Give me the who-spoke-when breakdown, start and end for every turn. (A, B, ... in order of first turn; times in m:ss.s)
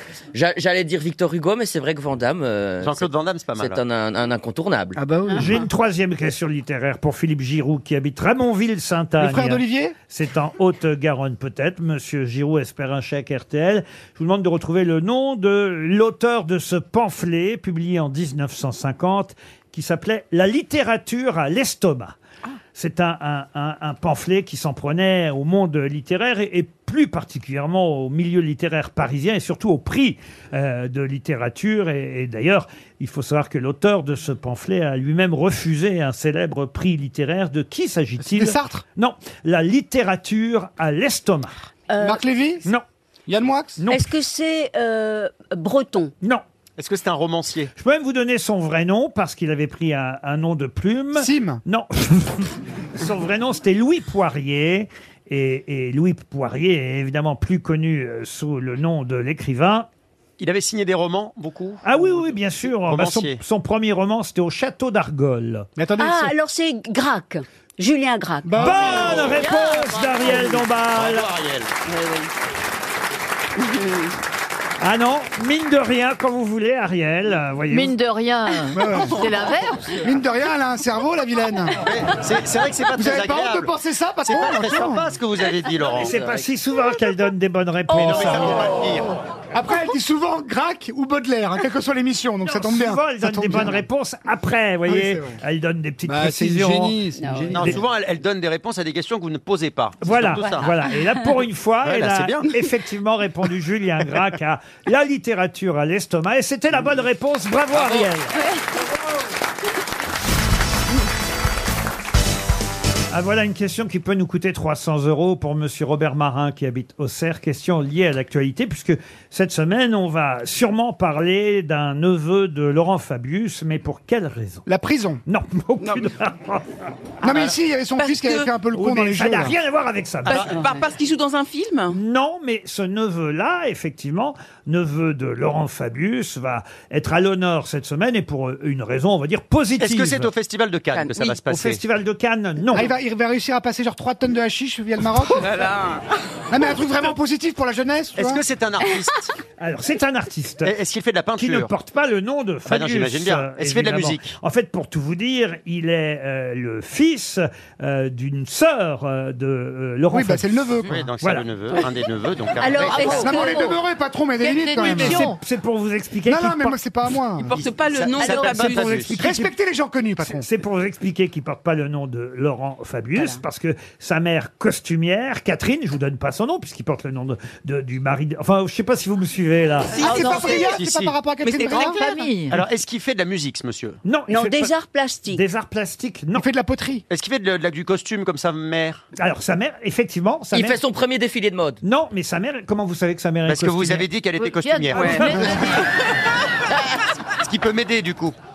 0:00.3-0:05.0 A
0:02.8-0:03.8 B
0:05.0-0:05.6 C
0:05.4-0:22.2 D
0:09.2-0:10.0 C
0:22.7-0:41.6 D
0:38.2-0:38.8 C
0:41.9-0:42.2 E
0:42.0-0:42.7 C
0:43.3-0:43.8 C
0:43.8-0:44.1 D
0:43.9-0:46.1 E
0:46.8-0:47.7 B
0:47.8-0:59.9 D
0:51.2-0:51.6 C
1:00.4-1:01.9 B
1:01.8-1:05.7 D
1:02.8-1:03.4 B
1:05.8-1:06.3 C
1:06.0-1:09.2 E
1:08.4-1:09.4 C
1:08.6-1:11.3 D
1:08.8-1:09.6 B
1:09.5-1:10.2 F
1:10.3-1:11.7 B
1:11.9-1:12.3 E
1:13.6-1:14.2 E
1:14.8-1:17.9 D
1:17.7-1:20.0 F
1:18.7-1:19.4 C
1:20.0-1:21.8 C
1:21.8-1:23.7 B
1:22.9-1:25.1 C
1:24.2-1:26.2 B
1:26.0-1:28.7 D
1:26.0-1:26.4 A
1:27.9-1:29.1 B
1:28.0-1:28.6 C
1:29.5-1:33.8 C
1:32.4-1:37.0 D
1:34.9-1:35.4 C
1:36.1-1:37.8 C
1:37.2-1:37.6 E
1:37.5-1:40.8 B
1:40.0-1:48.4 D
1:41.8-1:42.5 B
1:53.1-2:04.7 D
2:04.7-2:05.2 C
2:05.3-2:06.9 D
2:05.8-2:06.1 G
2:07.2-2:09.6 C
2:07.2-2:08.5 G
2:08.7-2:10.6 D
2:10.2-2:12.0 G
2:10.3-2:10.6 B
2:11.9-2:20.3 D
2:19.8-2:21.8 B
2:20.9-2:21.4 G
2:21.5-2:22.9 D
2:22.7-2:25.7 C
2:25.2-2:26.7 G
2:26.5-2:28.4 C
2:28.2-2:29.3 B
2:29.6-2:30.7 D
2:30.6-2:31.7 B
2:31.4-2:41.5 D
2:32.7-2:34.3 B
2:40.1-2:41.0 C
2:40.9-2:43.3 B
2:42.6-2:43.8 E
2:42.9-2:45.4 C
2:43.0-2:43.6 F
2:44.4-2:45.4 F
2:44.8-2:46.8 D
2:46.3-2:47.6 C
2:47.4-2:49.1 G
2:47.6-2:49.2 B
2:48.4-2:49.5 D
2:49.2-2:50.5 C
2:50.3-3:00.0 D
2:53.2-2:53.4 E
2:59.9-3:00.8 G
2:59.9-3:02.0 C
3:00.0-3:01.2 B
3:01.4-3:02.3 G
3:01.7-3:02.6 F
3:02.5-3:04.0 B
3:04.0-3:04.7 D
3:04.3-3:05.4 E
3:05.3-3:06.4 D
3:06.4-3:07.0 C
3:07.1-3:09.0 B
3:09.2-3:10.8 D
3:10.5-3:11.8 A
3:11.8-3:14.1 D
3:13.5-3:15.8 B
3:14.4-3:15.9 F
3:14.9-3:15.3 G
3:15.1-3:15.7 D
3:15.3-3:15.6 C
3:17.4-3:18.4 B